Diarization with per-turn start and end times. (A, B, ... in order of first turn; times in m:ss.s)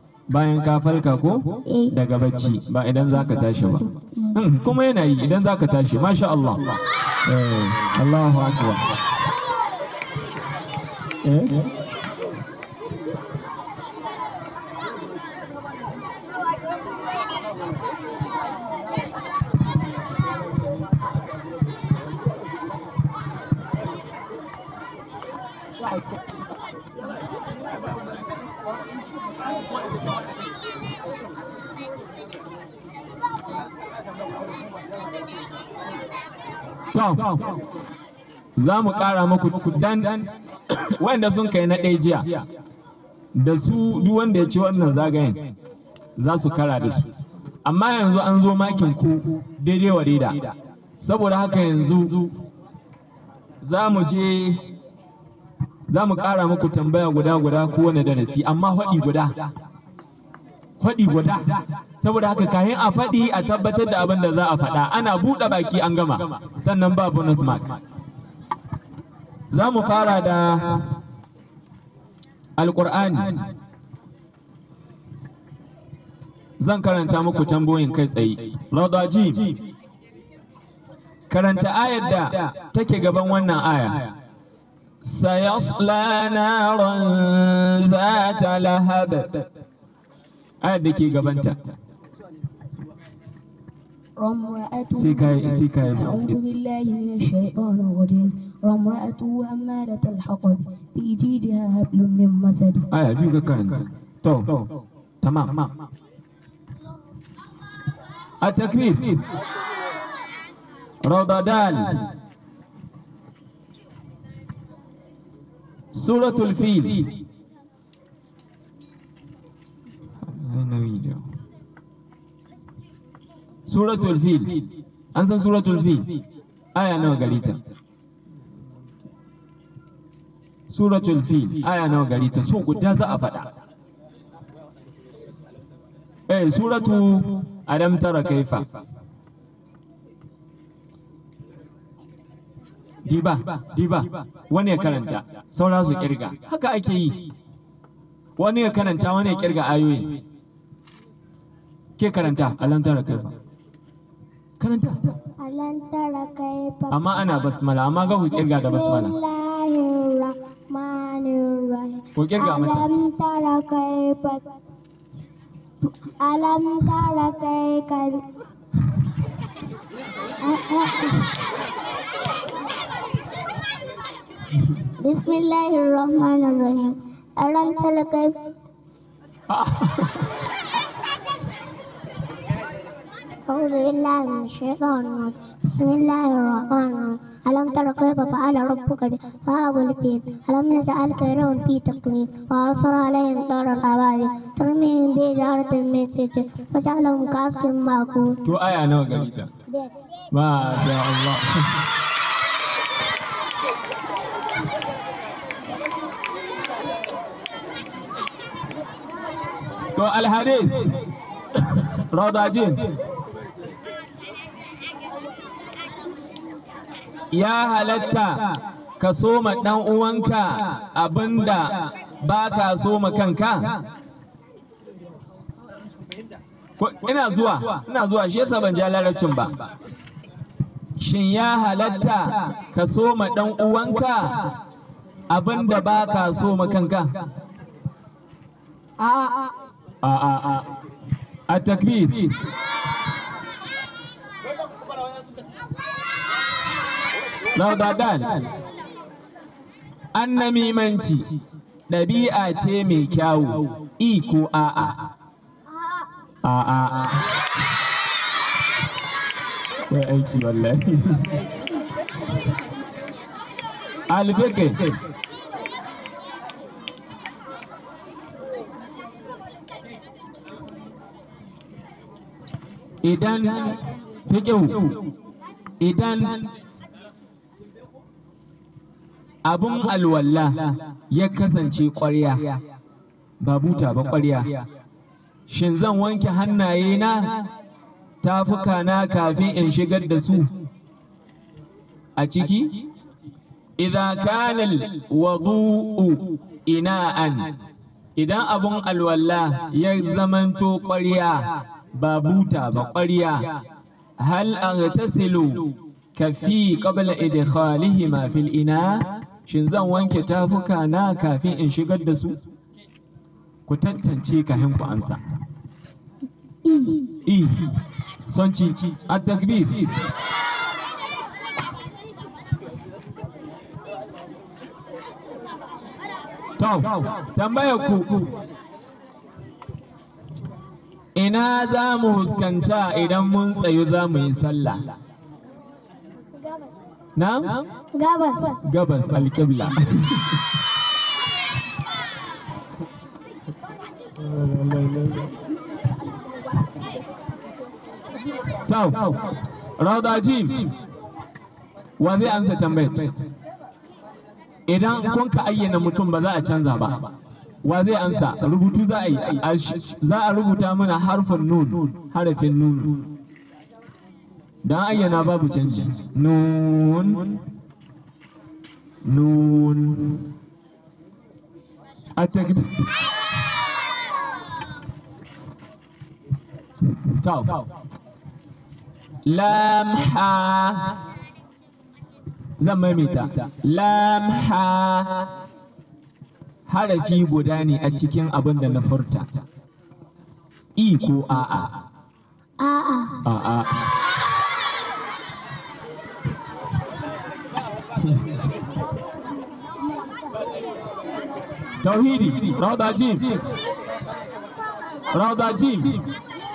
0:00.3-0:08.9 A
0:01.6-0:01.9 B
0:11.2-0:11.6 A
0:36.9-0:37.4 A
0:38.6-0:40.3 A
0:40.8-0:42.4 A
0:43.3-0:45.5 A
0:46.2-0:47.1 A
0:47.6-0:52.3 A
0:53.6-0:54.6 A
0:55.9-0:59.5 A
1:00.8-1:07.8 A
1:09.5-1:10.9 A
1:12.6-1:13.5 A
1:16.6-1:19.6 A
1:21.3-1:24.1 A
1:25.0-1:29.5 A
1:30.6-1:31.7 A
1:34.2-1:42.9 C
1:34.9-1:36.3 A
1:42.9-1:44.7 A
1:45.2-1:45.7 A
1:48.4-1:49.2 A
1:51.0-1:52.1 A
1:55.9-1:57.1 A
2:00.2-2:01.2 A
2:03.6-2:06.2 A
2:06.7-2:07.6 A
2:10.7-2:13.5 A
2:16.3-2:18.8 A
2:23.0-2:27.3 A
2:28.4-2:30.2 A
2:32.0-2:33.4 A
2:34.6-2:35.1 A
2:35.4-2:37.1 B
2:36.9-2:39.1 A
2:38.5-2:44.5 B
2:42.1-2:42.9 A
2:46.2-2:48.3 B
2:50.4-2:51.3 B
2:55.0-2:58.4 B
2:59.5-3:00.1 A
3:03.5-3:18.4 B
3:18.4-3:19.5 A
3:19.7-3:20.0 B
3:20.3-3:21.8 A
3:29.9-3:31.0 A
3:31.7-3:33.0 A
3:37.3-3:43.8 A
3:46.8-3:49.6 A
3:51.0-3:54.5 A
3:55.3-3:57.2 A
3:59.0-3:59.5 C
4:00.0-4:00.7 A
4:01.5-4:02.3 A
4:07.5-4:08.5 A
4:10.1-4:11.4 A
4:11.9-4:15.1 A
4:16.4-4:17.2 A
4:19.9-4:21.3 A
4:24.1-4:25.0 A
4:33.0-4:35.0 A
4:35.8-4:36.5 A
4:39.4-4:42.6 A
4:43.4-4:44.6 A
4:45.5-4:47.5 A
4:48.2-4:50.5 A
4:52.2-4:52.8 A
4:53.8-4:57.6 A
4:58.2-5:03.6 A
5:04.2-5:12.4 A
5:13.7-5:15.3 A
5:16.6-5:17.0 C
5:17.2-5:19.9 A
5:26.6-5:28.3 A
5:31.1-5:34.9 A
5:37.2-5:37.7 A
5:37.9-5:38.6 B
5:38.6-5:40.4 A
5:44.2-5:45.3 A
5:48.6-5:49.2 A
5:49.8-5:50.7 A
5:52.0-5:53.2 A
5:54.7-5:57.1 A
5:57.6-6:03.1 A
6:04.6-6:07.4 A
6:09.0-6:10.3 A
6:12.2-6:12.9 A
6:17.2-6:17.7 A
6:19.2-6:21.0 A
6:22.6-6:25.3 A
6:26.7-6:29.4 A
6:30.8-6:31.8 A
6:32.6-6:33.2 B
6:33.2-6:33.9 A
6:41.8-6:43.4 A
6:45.1-6:46.0 A